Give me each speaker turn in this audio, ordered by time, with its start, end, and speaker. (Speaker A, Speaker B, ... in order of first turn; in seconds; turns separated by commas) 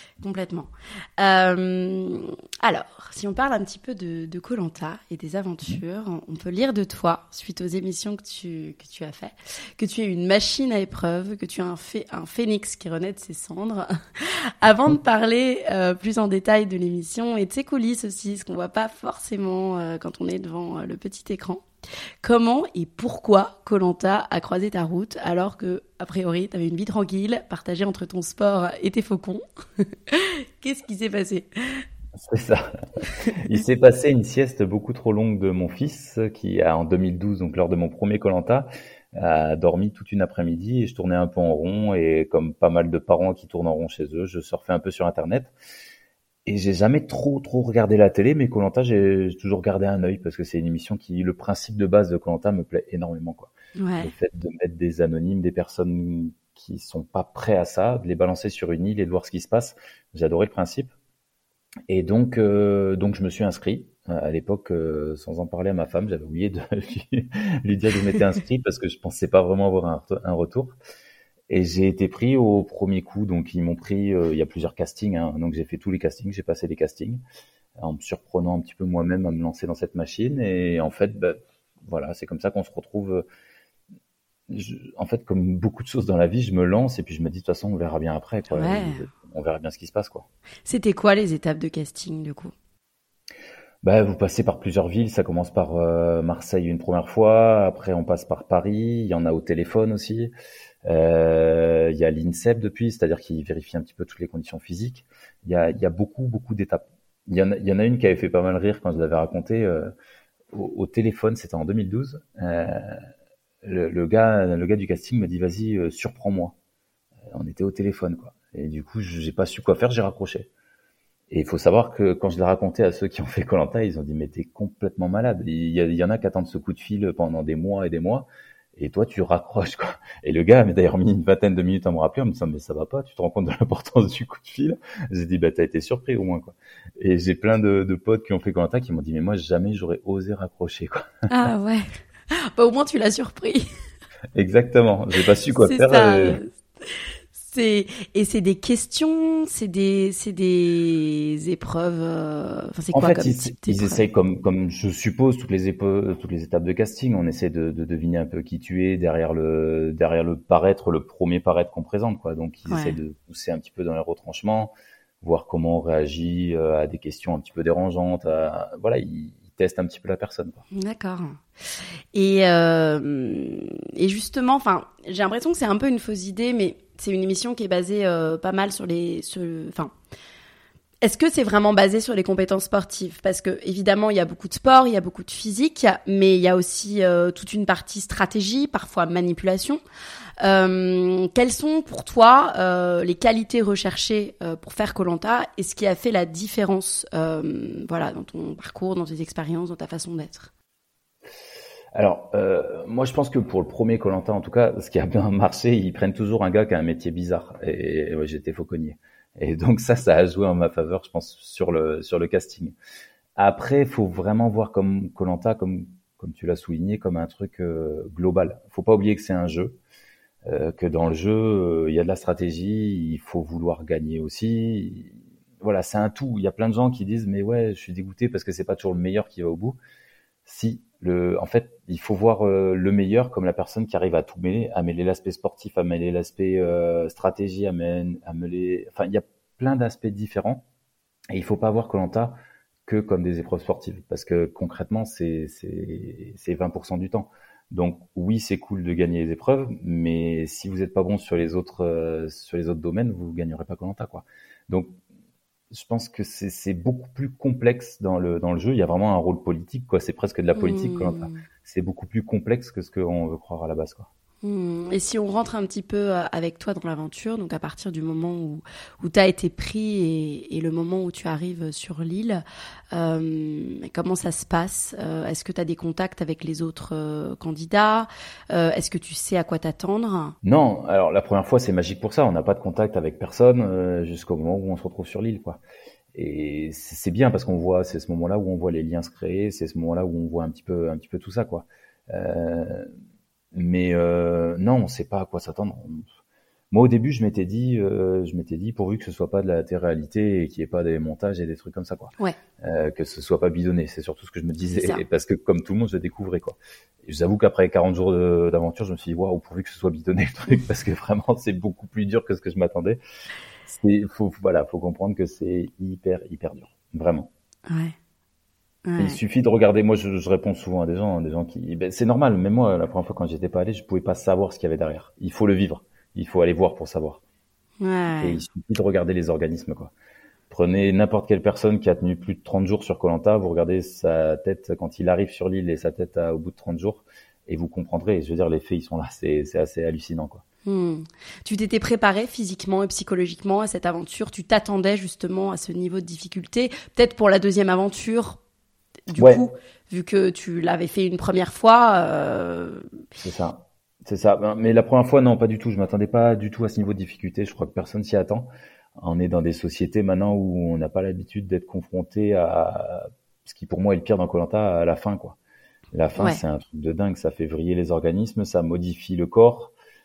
Speaker A: 0.2-21.6, Speaker A: 22.2-31.8, Speaker B: 32.2-32.7, Speaker A: 33.2-33.5, Speaker B: 33.3-45.5, Speaker B: 46.5-60.9, Speaker A: 53.8-54.1, Speaker B: 61.9-70.8, Speaker B: 71.5-77.2, Speaker B: 77.8-83.2, Speaker B: 84.5-90.3, Speaker A: 88.5-89.1, Speaker A: 90.7-92.5, Speaker B: 93.8-100.3, Speaker B: 100.9-109.9, Speaker B: 110.5-113.0, Speaker B: 113.6-116.5, Speaker B: 117.3-120.5, Speaker B: 121.3-141.1, Speaker A: 141.3-143.7, Speaker B: 144.3-146.4, Speaker A: 145.6-154.0, Speaker B: 152.9-170.6, Speaker A: 162.7-163.0, Speaker A: 170.7-171.4, Speaker A: 172.1-179.9, Speaker A: 181.0-189.8, Speaker A: 190.4-200.5, Speaker B: 201.9-212.8, Speaker B: 213.4-219.8, Speaker B: 220.5-229.8, Speaker B: 230.4-240.6, Speaker B: 241.3-255.0, Speaker B: 255.7-264.1, Speaker A: 260.5-261.4, Speaker A: 264.4-280.4, Speaker B: 280.4-285.6, Speaker B: 286.1-292.9, Speaker B: 293.5-296.1, Speaker B: 296.7-313.0, Speaker A: 304.7-305.0, Speaker B: 313.7-317.3, Speaker A: 317.7-317.9, Speaker A: 318.9-319.2, Speaker B: 319.0-327.2, Speaker A: 327.8-328.4, Speaker B: 328.2-329.9, Speaker B: 330.5-340.4, Speaker A: 340.7-348.4, Speaker A: 349.1-352.9, Speaker B: 349.1-349.5, Speaker B: 353.2-365.4, Speaker B: 365.9-369.7